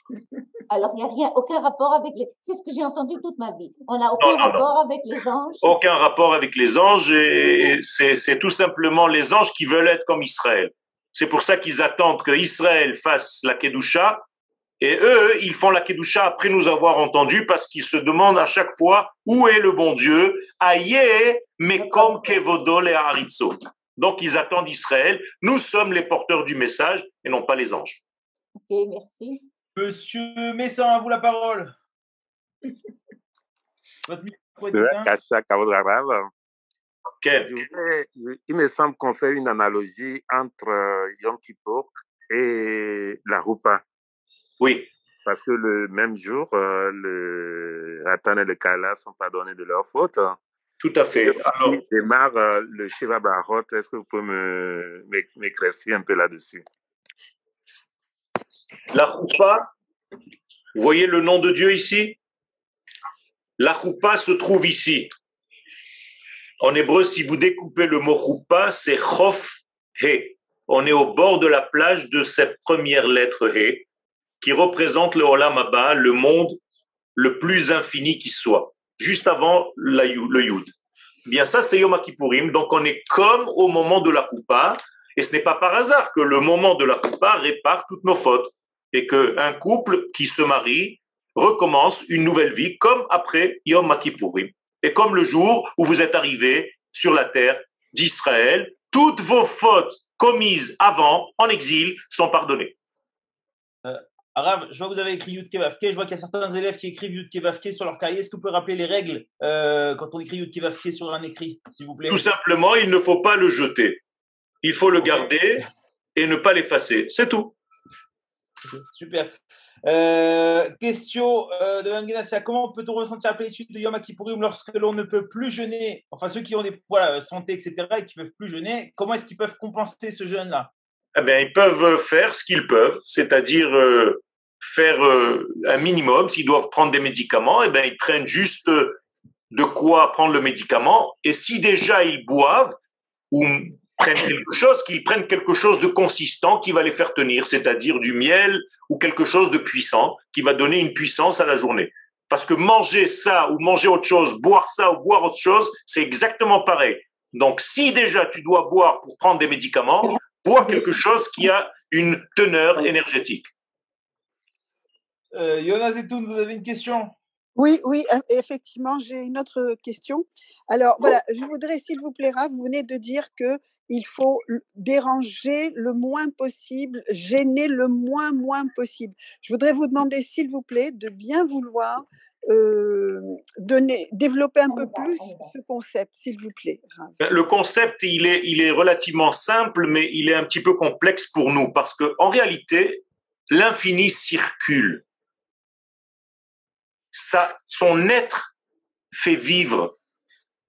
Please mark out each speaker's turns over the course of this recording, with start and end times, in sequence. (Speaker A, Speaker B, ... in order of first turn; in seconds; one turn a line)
Speaker A: 0.7-5.8
Speaker B: 4.2-4.7
Speaker B: 5.6-14.2
Speaker B: 14.8-28.0
Speaker A: 21.8-22.7
Speaker A: 28.7-29.4
Speaker C: 29.8-31.8
Speaker C: 34.1-35.1
Speaker D: 34.7-36.3
Speaker B: 37.2-37.5
Speaker D: 37.5-43.8
Speaker B: 44.6-44.9
Speaker D: 45.2-50.4
Speaker B: 50.8-51.8
Speaker D: 51.2-56.6
Speaker B: 58.9-59.7
Speaker B: 60.8-62.2
Speaker B: 63.6-65.1
Speaker B: 66.6-73.9
Speaker B: 74.4-76.6
Speaker B: 77.2-80.7
Speaker B: 81.3-102.8
Speaker C: 103.8-112.3
Speaker B: 112.1-114.0
Speaker B: 114.6-117.5
Speaker C: 118.9-119.3
Speaker C: 119.9-130.7
Speaker B: 131.2-139.0
Speaker B: 139.5-142.8
Speaker B: 143.3-163.5
Speaker C: 165.3-167.1
Speaker E: 167.6-187.2
Speaker A: 184.7-185.5
Speaker B: 187.2-195.0
Speaker B: 197.1-198.5
Speaker B: 199.1-199.9